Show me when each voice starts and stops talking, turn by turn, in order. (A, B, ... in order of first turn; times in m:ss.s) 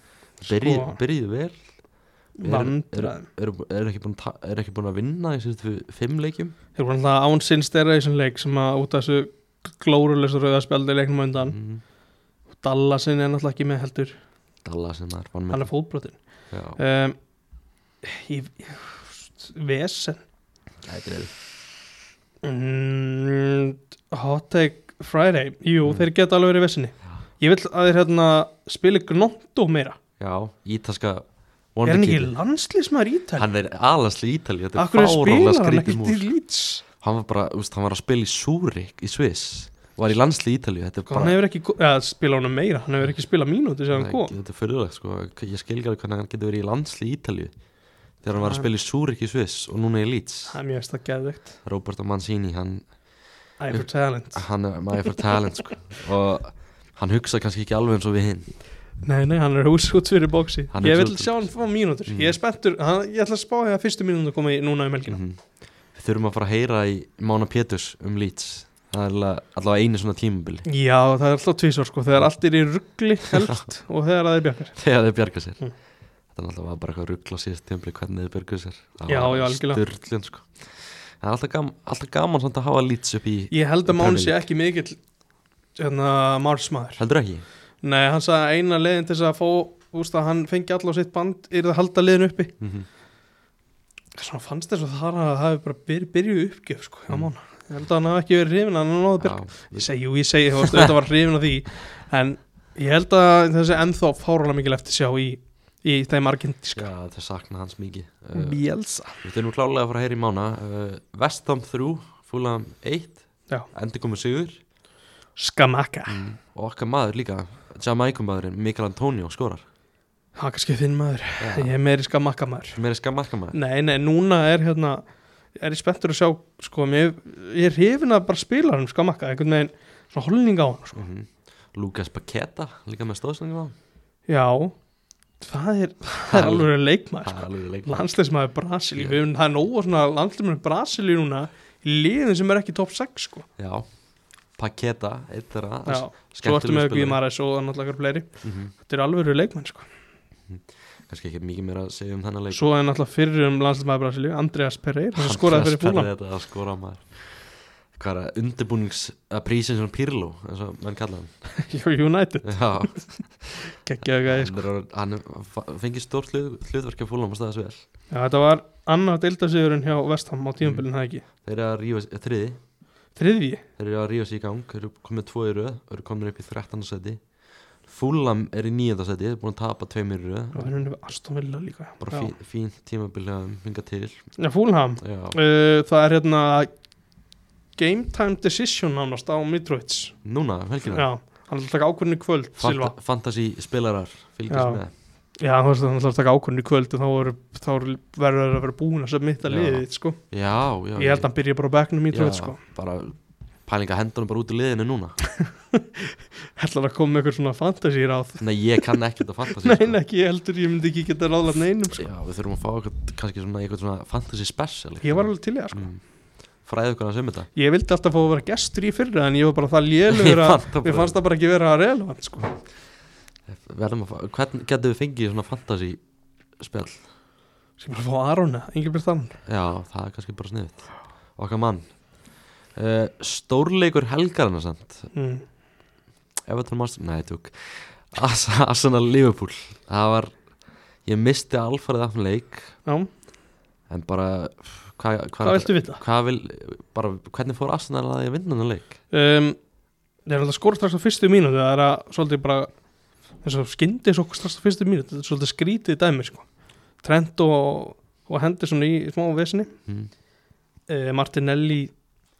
0:00.4-0:01.6 A
0:00.4-0:01.0 B
0:02.4-0:03.2 B
0:02.4-0:06.5 A
0:06.7-0:11.6 B
0:11.4-0:11.8 A
0:12.6-0:14.2 B
0:14.6-0:15.7 A
0:15.5-0:16.2 B
0:16.5-0:16.8 A
0:16.8-0:17.2 B
0:18.0-0:20.2 B
0:20.8-0:21.3 A
0:22.4-0:30.0 B
0:30.2-0:31.2 A
0:31.7-0:32.3 A
0:31.8-0:33.5 B
0:33.4-0:36.3 A
0:34.8-0:36.8 B
0:37.0-0:41.4 A
0:41.1-0:44.3 B
0:43.9-0:47.5 A
0:48.2-0:50.6 A
0:48.4-0:48.7 B
0:50.5-0:51.5 B
0:51.6-0:52.9 A
0:53.6-0:54.4 B
0:53.7-0:58.5 A
0:59.0-1:05.2 B
1:00.7-1:01.4 A
1:02.0-1:02.4 A
1:05.1-1:05.4 A
1:05.9-1:10.6 A
1:10.6-1:14.8 B
1:14.8-1:15.6 A
1:16.3-1:24.4 A
1:19.1-1:19.8 B
1:23.5-1:25.0 B
1:25.8-1:27.0 B
1:27.0-1:27.4 A
1:27.8-1:32.5 B
1:32.6-1:32.9 A
1:34.1-1:46.9 B
1:39.2-1:39.9 A
1:40.6-1:40.9 A
1:46.8-1:48.6 A
1:48.3-1:49.2 B
1:49.2-1:54.6 A
1:55.4-1:56.2 B
1:56.1-1:59.6 A
2:00.4-2:02.8 B
2:01.4-2:01.7 A
2:02.8-2:03.6 A
2:03.5-2:05.0 B
2:05.6-2:11.0 B
2:11.0-2:13.7 A
2:14.3-2:14.7 B
2:15.4-2:23.4 B
2:16.3-2:16.7 A
2:17.2-2:18.1 A
2:23.6-2:23.9 A
2:24.6-2:27.2 A
2:25.8-2:29.8 B
2:28.4-2:28.7 A
2:30.5-2:32.6 A
2:32.5-2:36.1 B
2:35.2-2:41.3 A
2:41.6-2:43.0 B
2:42.4-2:43.6 A
2:43.7-2:44.6 B
2:44.2-2:47.8 A
2:48.1-2:51.2 B
2:51.4-2:52.6 A
2:53.2-2:53.6 B
2:53.8-2:57.2 A
2:57.8-3:00.7 A
3:00.5-3:02.3 B
3:02.0-3:04.2 A
3:04.4-3:06.7 B
3:05.0-3:05.4 A
3:07.8-3:10.2 B
3:10.2-3:11.1 A
3:10.9-3:12.9 B
3:12.6-3:14.9 A
3:14.5-3:14.8 B
3:15.4-3:20.2 B
3:19.4-3:21.3 A
3:21.0-3:22.6 B
3:22.1-3:25.2 A
3:25.3-3:32.1 B
3:28.4-3:30.0 A
3:31.9-3:36.0 A
3:35.0-3:35.9 B
3:36.6-3:37.5 A
3:37.5-3:42.6 B
3:40.1-3:41.2 A
3:43.5-3:46.0 A
3:46.6-3:47.0 A
3:47.8-3:49.4 B
3:49.4-3:51.9 A
3:52.7-3:55.1 A
3:55.1-3:55.4 B
3:56.5-4:00.4 A
4:01.0-4:02.8 A
4:03.9-4:09.0 A
4:05.4-4:06.0 B
4:09.1-4:09.6 B
4:10.2-4:12.7 B
4:13.4-4:16.4 B
4:17.0-4:19.7 B
4:20.9-4:21.9 B